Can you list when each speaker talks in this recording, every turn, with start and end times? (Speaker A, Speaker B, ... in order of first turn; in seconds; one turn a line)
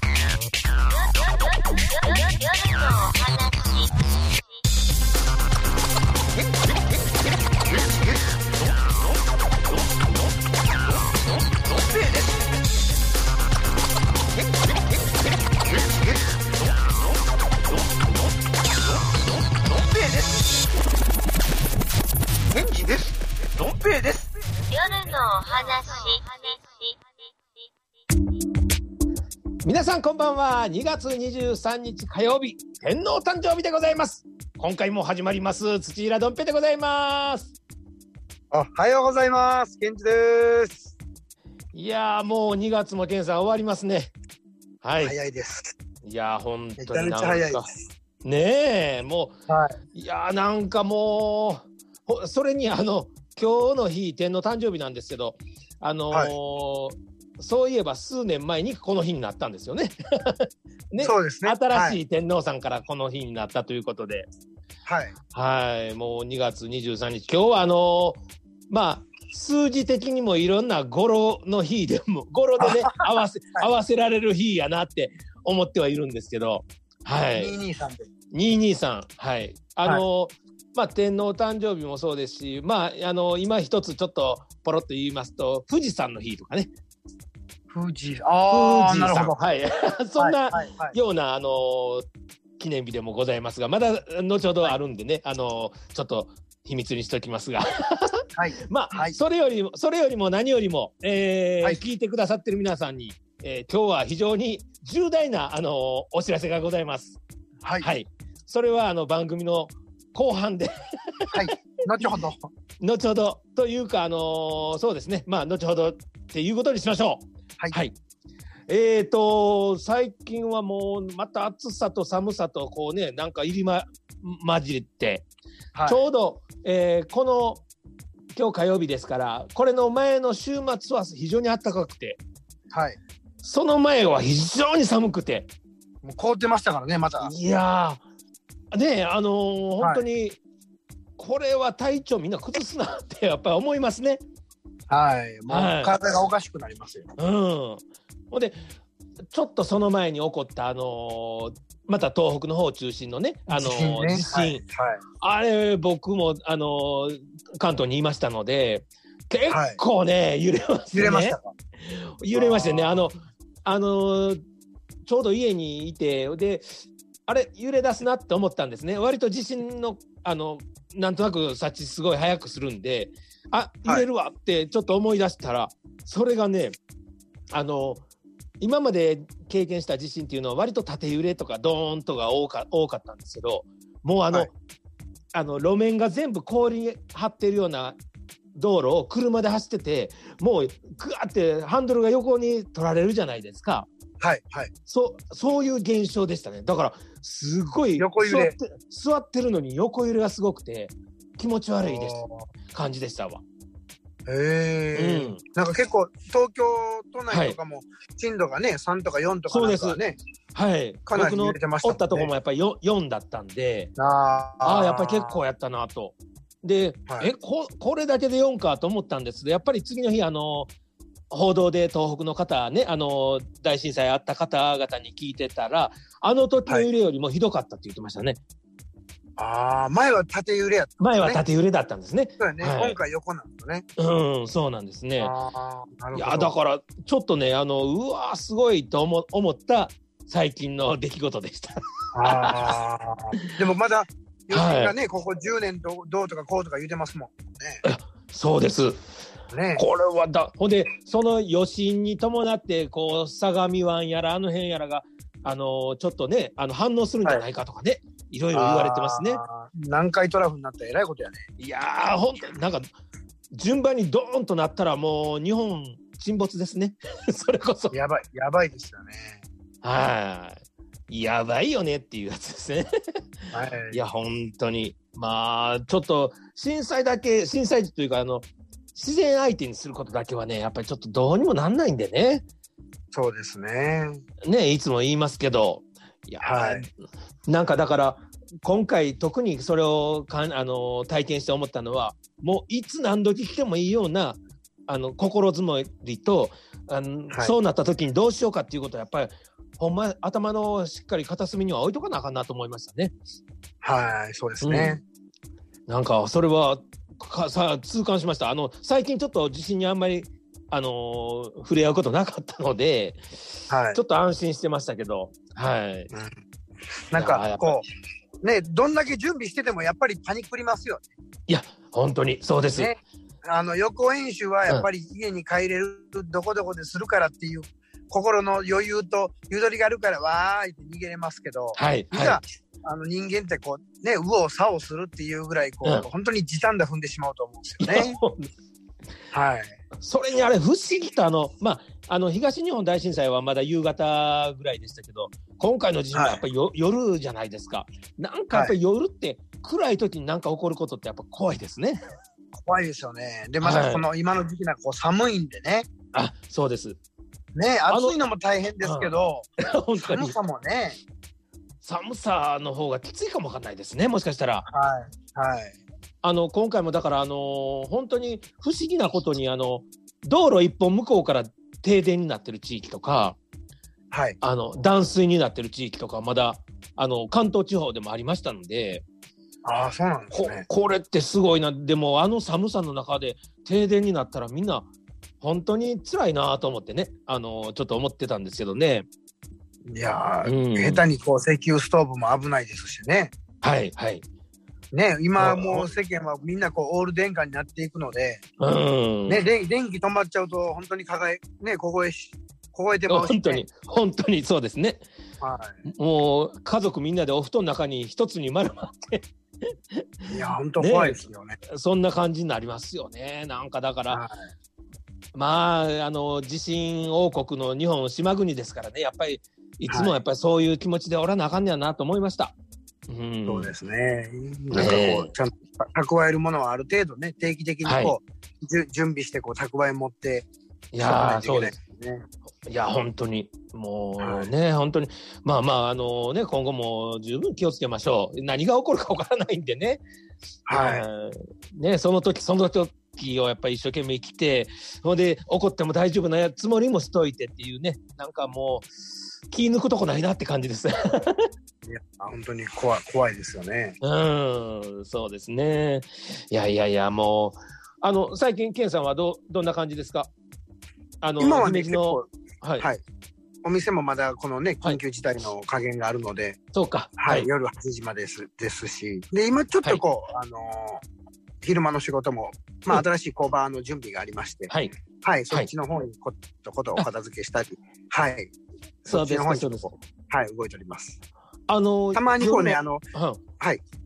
Speaker A: 0.9-4.4
Speaker A: 24.7-27.7
Speaker B: 29.6-37.5
Speaker C: 38.5-40.9
Speaker B: 41.7-44.1
Speaker B: 44.8-45.1
Speaker C: 45.0-45.7
Speaker B: 46.0-47.7
Speaker C: 46.8-47.7
Speaker B: 48.2-49.3
Speaker C: 49.5-49.8
Speaker B: 49.9-64.3
Speaker C: 61.0-62.0
Speaker C: 64.8-65.2
Speaker B: 65.3-77.5
Speaker C: 72.6-73.0
Speaker C: 77.3-78.1
Speaker B: 78.3-86.7
Speaker C: 87.7-89.3
Speaker B: 88.5-92.0
Speaker C: 90.2-91.0
Speaker B: 92.6-107.2
Speaker C: 98.3-99.2
Speaker C: 107.6-107.9
Speaker B: 107.8-112.0
Speaker C: 111.3-112.5
Speaker B: 112.8-118.0
Speaker B: 118.7-125.3
Speaker C: 125.7-126.0
Speaker B: 125.8-127.6
Speaker B: 128.3-132.2
Speaker C: 132.7-133.0
Speaker B: 133.4-135.5
Speaker C: 136.0-137.3
Speaker B: 137.2-138.0
Speaker B: 138.7-140.4
Speaker B: 141.2-144.2
Speaker C: 144.9-147.1
Speaker B: 145.5-145.9
Speaker B: 147.2-148.6
Speaker B: 149.3-154.6
Speaker C: 153.5-155.0
Speaker B: 155.2-164.4
Speaker C: 159.5-159.8
Speaker C: 160.9-161.5
Speaker C: 162.3-163.1
Speaker B: 165.1-166.7
Speaker B: 167.3-176.8
Speaker B: 177.5-178.0
Speaker B: 178.6-184.5
Speaker B: 185.3-188.0
Speaker B: 188.5-193.9
Speaker C: 194.2-194.7
Speaker B: 194.9-202.2
Speaker C: 198.0-198.5
Speaker C: 201.8-202.5
Speaker B: 202.7-203.4
Speaker C: 204.2-210.2
Speaker B: 204.9-205.4
Speaker B: 207.3-207.6
Speaker B: 209.5-210.0
Speaker B: 210.5-213.9
Speaker C: 211.1-212.3
Speaker C: 214.0-215.4
Speaker B: 214.6-220.7
Speaker C: 217.1-217.3
Speaker B: 221.3-228.4
Speaker C: 229.4-231.4
Speaker B: 231.0-233.0
Speaker C: 232.4-233.8
Speaker B: 234.0-235.3
Speaker C: 235.2-236.5
Speaker B: 236.1-242.7
Speaker C: 242.1-247.8
Speaker B: 244.5-244.9
Speaker B: 247.8-249.0
Speaker C: 249.5-249.8
Speaker B: 249.8-259.4
Speaker C: 258.5-261.4
Speaker B: 261.6-262.9
Speaker B: 263.5-267.9
Speaker C: 267.9-269.4
Speaker B: 269.8-272.9
Speaker C: 273.5-274.0
Speaker B: 273.9-282.4
Speaker C: 283.1-284.2
Speaker B: 284.4-286.9
Speaker C: 286.4-286.9
Speaker B: 287.5-303.1
Speaker C: 303.8-305.0
Speaker B: 304.6-305.0
Speaker B: 305.9-313.2
Speaker C: 313.7-314.0
Speaker B: 313.9-316.1
Speaker C: 317.1-317.8
Speaker B: 317.1-317.8
Speaker C: 318.4-321.0
Speaker B: 321.5-322.9
Speaker C: 322.6-338.2
Speaker B: 331.8-332.4
Speaker B: 337.8-338.5
Speaker C: 339.3-339.8
Speaker B: 340.0-352.0
Speaker C: 346.1-346.4
Speaker C: 352.5-355.9
Speaker B: 353.6-354.0
Speaker B: 356.1-357.0
Speaker C: 357.5-361.0
Speaker B: 357.9-358.1
Speaker B: 358.8-360.4
Speaker B: 361.8-364.7
Speaker C: 364.7-365.8
Speaker B: 366.2-373.4
Speaker C: 374.1-374.4
Speaker B: 374.4-379.0
Speaker C: 379.6-380.6
Speaker B: 380.3-384.9
Speaker B: 385.4-389.1
Speaker C: 389.9-393.3
Speaker B: 390.4-391.0
Speaker B: 393.6-394.2
Speaker C: 394.9-398.4
Speaker B: 395.4-395.9
Speaker B: 398.6-399.4
Speaker C: 399.3-403.6
Speaker B: 403.1-405.0
Speaker C: 405.4-405.8
Speaker B: 405.9-410.3
Speaker C: 410.3-411.6
Speaker B: 410.8-414.2
Speaker C: 414.1-414.5
Speaker B: 415.3-422.5
Speaker C: 419.9-420.2
Speaker B: 423.1-423.7
Speaker C: 423.5-430.5
Speaker B: 424.7-425.3
Speaker B: 427.8-428.2
Speaker B: 430.9-431.7
Speaker C: 431.0-432.2
Speaker B: 432.6-440.0
Speaker C: 434.2-434.5
Speaker C: 440.7-441.1
Speaker B: 440.7-448.9
Speaker B: 449.5-451.5
Speaker C: 451.8-454.0
Speaker B: 454.0-460.3
Speaker B: 461.2-462.9
Speaker C: 461.4-462.3
Speaker C: 463.6-466.6
Speaker B: 466.7-467.5
Speaker C: 467.2-471.0
Speaker C: 471.6-474.7
Speaker C: 475.2-478.5
Speaker C: 479.0-481.2
Speaker B: 479.1-479.9
Speaker B: 481.7-483.4
Speaker C: 482.1-483.0